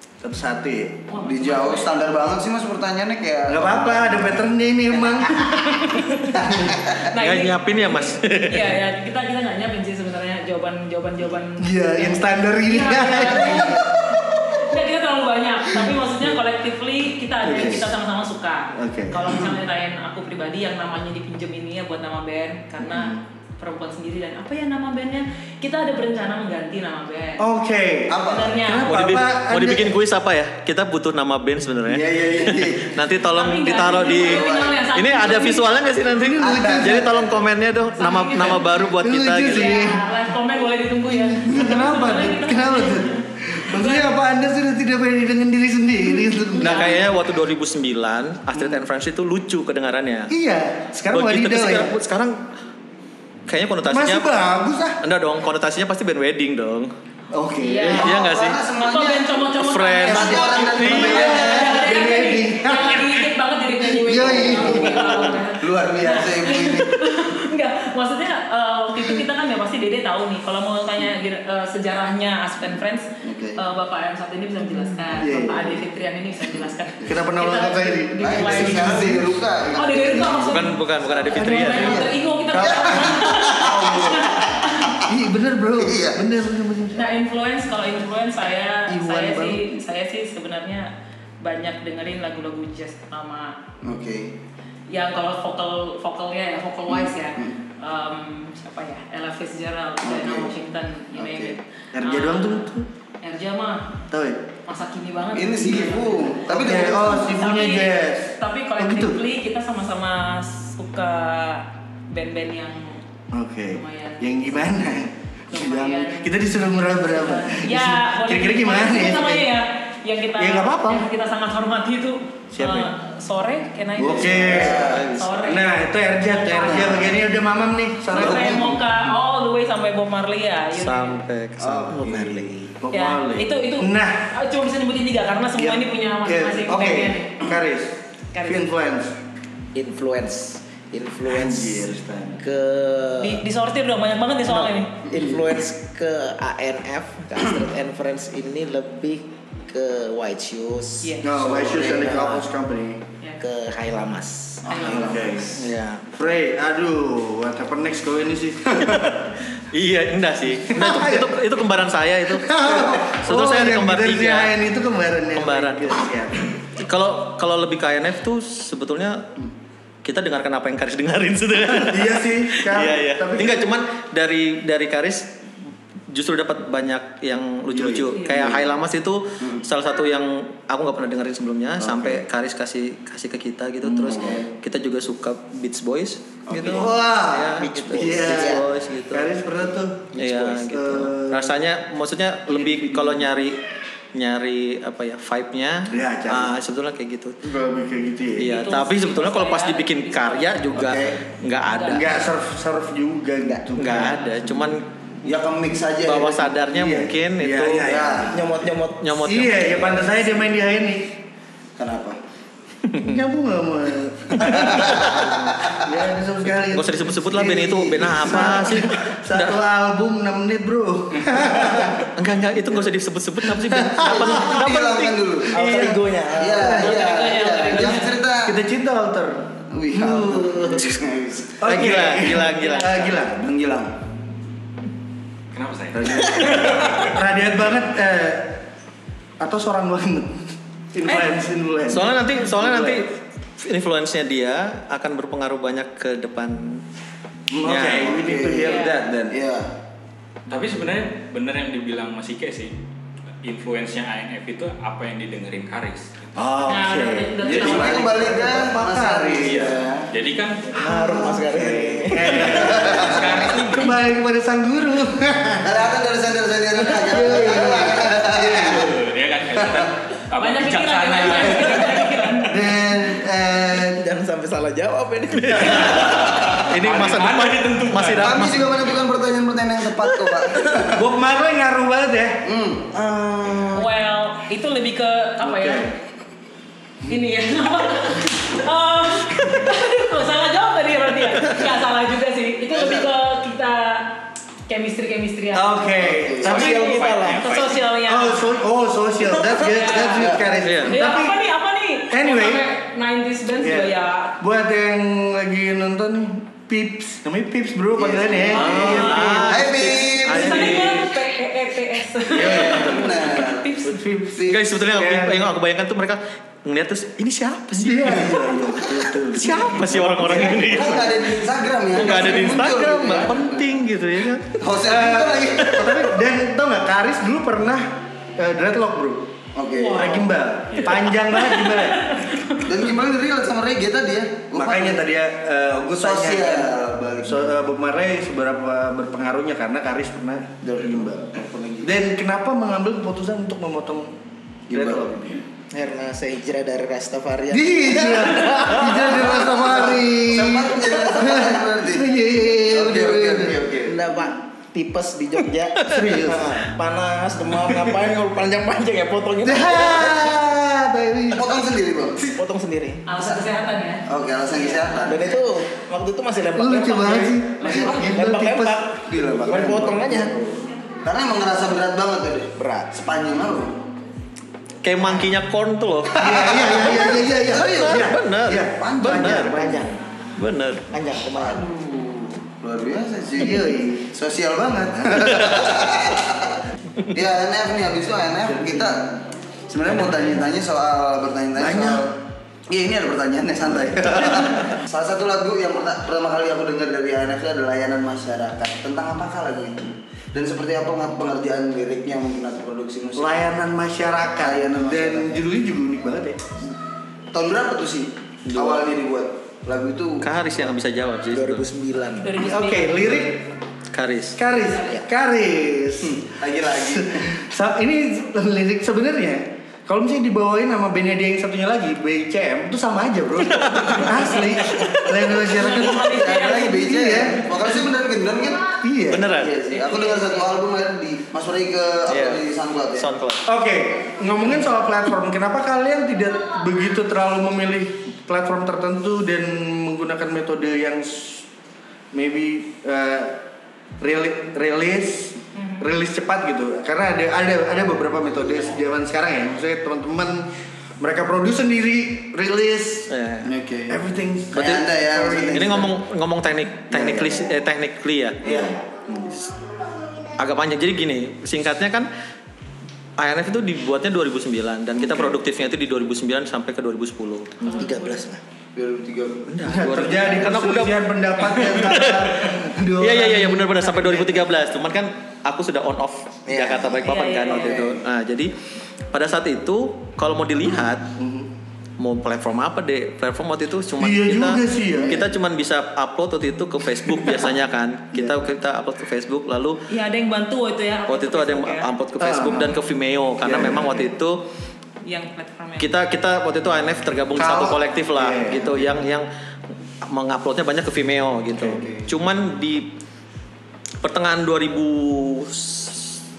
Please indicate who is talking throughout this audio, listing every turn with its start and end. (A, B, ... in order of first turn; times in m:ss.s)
0:00.2-0:01.0 A
0:01.1-0:01.9 B
0:01.2-0:04.3 C
0:03.5-0:05.7 A
0:05.4-0:06.4 B
0:06.3-0:07.0 C
0:07.1-0:27.4 B
0:07.1-0:08.8 D
0:11.6-0:14.5 A
0:15.8-0:16.3 A
0:17.4-0:17.9 A
0:18.7-0:19.4 A
0:22.8-0:23.2 A
0:27.4-0:30.0 A
0:28.1-0:28.6 C
0:28.2-0:29.0 B
0:28.8-0:39.8 D
0:31.8-0:33.0 C
0:33.3-0:35.9 B
0:34.0-0:34.8 C
0:36.2-0:37.1 A
0:36.4-0:37.3 C
0:38.0-0:38.7 B
0:39.0-0:40.0 A
0:39.4-0:44.1 B
0:41.1-0:47.0 A
0:46.5-0:47.0 B
0:46.6-0:50.3 D
0:50.3-0:51.9 A
0:51.1-0:52.3 D
0:53.5-0:54.3 D
0:53.9-0:55.0 A
0:55.0-0:56.9 D
0:57.3-0:58.1 A
0:57.6-1:19.1 B
0:58.0-0:58.6 D
0:58.0-1:01.9 C
0:59.6-1:01.5 D
1:00.1-1:03.3 A
1:03.8-1:05.4 A
1:04.1-1:07.3 C
1:13.2-1:13.6 C
1:15.1-1:15.8 A
1:17.0-1:19.8 A
1:18.2-1:20.6 C
1:19.7-1:25.0 B
1:20.5-1:22.0 D
1:21.3-1:25.1 C
1:21.4-1:21.8 A
1:25.0-1:27.1 A
1:25.8-1:26.2 C
1:26.9-1:33.6 B
1:28.9-1:29.8 A
1:33.8-1:34.4 C
1:34.9-1:42.7 B
1:36.9-1:37.6 C
1:40.0-1:40.5 C
1:41.1-1:41.6 C
1:41.9-1:42.9 A
1:43.2-1:43.9 B
1:44.1-1:44.4 A
1:44.6-1:53.0 B
1:45.3-1:47.4 C
1:46.4-1:49.2 A
1:53.3-1:59.5 A
1:53.7-1:54.7 B
1:55.5-1:56.4 B
1:57.1-2:07.1 B
2:00.4-2:01.0 A
2:02.5-2:02.9 A
2:04.0-2:08.8 A
2:04.2-2:05.1 C
2:04.8-2:05.4 D
2:06.6-2:07.1 C
2:08.1-2:11.2 B
2:08.1-2:08.8 C
2:10.7-2:12.2 D
2:11.6-2:12.5 C
2:11.9-2:12.7 E
2:12.8-2:14.2 A
2:12.9-2:17.4 B
2:15.6-2:19.2 A
2:18.3-2:18.6 B
2:19.7-2:21.8 E
2:21.2-2:22.4 A
2:22.4-2:23.4 E
2:23.2-2:25.0 B
2:24.4-2:31.2 E
2:25.1-2:25.4 C
2:31.0-2:31.3 B
2:31.2-2:33.0 A
2:31.3-2:32.1 C
2:31.8-2:32.4 E
2:33.4-2:34.6 E
2:34.6-2:35.6 C
2:34.7-2:35.2 B
2:34.8-2:39.2 A
2:35.5-2:36.1 D
2:38.8-2:44.5 D
2:40.7-2:41.4 A
2:42.3-2:46.4 A
2:45.3-2:46.0 D
2:46.6-2:49.3 D
2:50.0-2:55.4 D
2:51.7-2:53.7 A
2:56.1-3:09.3 D
2:57.7-2:58.5 A
2:59.4-2:59.6 C
3:01.8-3:02.2 A
3:03.9-3:04.5 A
3:04.0-3:04.4 C
3:06.5-3:07.0 C
3:06.6-3:11.6 A
3:07.6-3:08.6 E
3:10.1-3:13.6 D
3:12.5-3:13.3 A
3:14.1-3:17.4 D
3:15.9-3:16.5 A
3:17.4-3:18.6 A
3:18.4-3:22.1 D
3:18.4-3:20.9 B
3:20.7-3:21.2 C
3:21.6-3:22.2 B
3:21.8-3:24.7 A
3:23.7-3:24.9 D
3:25.2-3:26.5 C
3:26.0-3:27.9 D
3:26.7-3:28.5 A
3:27.8-3:28.4 C
3:28.3-3:29.2 E
3:29.0-3:29.8 D
3:29.2-3:31.2 A
3:31.8-3:32.2 C
3:32.9-3:33.1 D
3:33.0-3:42.1 A
3:34.4-3:35.8 C
3:34.6-3:35.1 D
3:36.7-3:39.6 D
3:41.9-3:45.2 D
3:43.4-3:44.6 A
3:44.0-3:45.7 C
3:45.5-3:46.0 A
3:45.5-3:47.1 E
3:46.3-3:48.6 C
3:46.7-3:48.2 B
3:48.4-3:50.3 A
3:49.7-3:51.7 C
3:50.2-3:50.8 E
3:51.6-3:53.4 A
3:51.6-3:53.1 D
3:53.2-3:54.0 C
3:55.5-3:57.1 F
3:55.9-3:58.6 A
3:59.4-4:03.1 A
4:01.1-4:01.3 B
4:01.9-4:06.8 D
4:07.5-4:09.4 A
4:07.6-4:08.1 D
4:08.0-4:09.7 C
4:08.6-4:09.0 B
4:10.5-4:12.7 F
4:13.4-4:16.3 F
4:16.3-4:19.8 A
4:16.7-4:18.1 B
4:17.4-4:20.1 C
4:20.1-4:20.7 F
4:20.8-4:22.5 E
4:20.8-4:25.8 A
4:22.3-4:24.0 F
4:22.5-4:23.4 C
4:25.6-4:29.0 C
4:27.1-4:28.8 A
4:27.1-4:28.0 E
4:28.4-4:32.4 F
4:29.6-4:29.9 C
4:30.4-4:32.6 B
4:32.5-4:34.0 A
4:33.8-4:36.1 E
4:35.4-4:38.7 D
4:35.8-4:38.6 F
4:38.2-4:41.0 C
4:40.8-4:42.4 A
4:42.4-4:43.9 C
4:43.7-4:45.9 B
4:45.4-4:45.9 A
4:47.0-4:55.8 B
4:52.7-4:53.1 C
4:55.5-4:56.8 A
4:56.0-4:56.6 C
4:56.4-4:57.5 E
4:56.5-4:57.8 F
4:56.5-4:58.5 B
4:58.0-5:01.4 A
4:59.4-5:04.4 B
5:00.1-5:00.6 C
5:00.6-5:01.0 D
5:02.1-5:02.6 A
5:03.6-5:10.0 A
5:07.9-5:10.9 C
5:08.6-5:11.1 D
5:08.9-5:09.2 B
5:10.2-5:14.0 B
5:12.3-5:15.5 A
5:12.3-5:13.8 C
5:14.3-5:14.6 C
5:14.5-5:18.4 D
5:17.7-5:21.1 A
5:19.2-5:21.2 D
5:20.3-5:23.7 C
5:21.9-5:24.6 D
5:24.5-5:26.0 C
5:24.8-5:29.3 A
5:29.5-5:30.2 C
5:29.7-5:32.7 B
5:29.9-5:32.1 A
5:32.6-5:35.0 C
5:34.5-5:41.1 A
5:35.9-5:37.5 C
5:40.6-5:42.0 C
5:41.8-5:44.1 A
5:44.7-5:45.4 C
5:44.7-5:45.4 A
5:45.7-5:48.3 E
5:47.5-5:53.6 A
5:48.2-5:54.0 C
5:53.8-6:00.3 E
5:55.9-5:56.5 A
5:59.4-6:01.6 A
6:01.3-6:02.3 C
6:02.3-6:03.0 E
6:03.0-6:04.0 B
6:03.1-6:03.4 C
6:04.0-6:05.4 C
6:05.0-6:10.5 E
6:06.5-6:09.0 A
6:07.6-6:08.1 B
6:09.0-6:10.3 C
6:11.0-6:13.8 C
6:12.6-6:13.0 E
6:14.8-6:16.3 D
6:16.2-6:19.9 A
6:16.2-6:18.1 C
6:17.6-6:19.7 D
6:18.6-6:19.3 C
6:19.5-6:19.9 E
6:20.4-6:20.9 D
6:20.9-6:21.7 E
6:21.4-6:32.1 C
6:23.4-6:24.1 A
6:28.4-6:29.1 A
6:29.8-6:30.2 A
6:31.6-6:32.1 A
6:32.7-6:43.4 C
6:33.7-6:34.3 A
6:43.2-6:46.4 A
6:44.4-6:45.4 C
6:47.3-6:50.3 C
6:48.5-6:48.8 D
6:50.2-6:51.7 D
6:51.3-6:52.3 E
6:52.2-6:53.1 B
6:52.4-6:53.5 A
6:53.9-6:54.4 D
6:54.4-7:07.6 A
6:56.0-6:57.4 C
7:03.4-7:05.0 D
7:05.3-7:06.8 B
7:06.0-7:08.7 C
7:08.8-7:09.4 A
7:09.1-7:09.5 D
7:09.3-7:13.1 C
7:09.7-7:10.5 B
7:12.1-7:12.4 D
7:13.0-7:13.4 D
7:13.4-7:21.4 A
7:22.1-7:23.4 A
7:24.0-7:33.1 A
7:33.1-7:33.5 D
7:33.4-7:34.0 C
7:33.9-7:35.9 A
7:34.5-7:35.9 C
7:34.5-7:34.9 D
7:35.5-7:38.6 D
7:38.4-7:38.7 C
7:38.4-7:39.1 A
7:39.2-7:39.5 D
7:40.4-7:42.1 D
7:43.2-7:47.8 D
7:45.0-7:45.3 A
7:47.6-7:48.2 B
7:47.7-7:48.4 E
7:48.7-7:49.5 C
7:49.5-7:58.5 D
7:49.6-7:54.5 A
7:56.5-7:57.0 E
7:57.0-7:57.9 B
7:59.1-8:01.1 D
8:01.2-8:01.5 A
8:02.0-8:09.8 D
8:04.0-8:05.3 A
8:08.1-8:08.4 A
8:09.9-8:11.9 B
8:11.1-8:14.4 D
8:12.2-8:12.7 A
8:13.4-8:14.1 A
8:15.0-8:15.9 B
8:15.8-8:19.3 D
8:17.4-8:19.0 A
8:20.0-8:22.9 D
8:21.5-8:22.0 A
8:24.0-8:26.2 D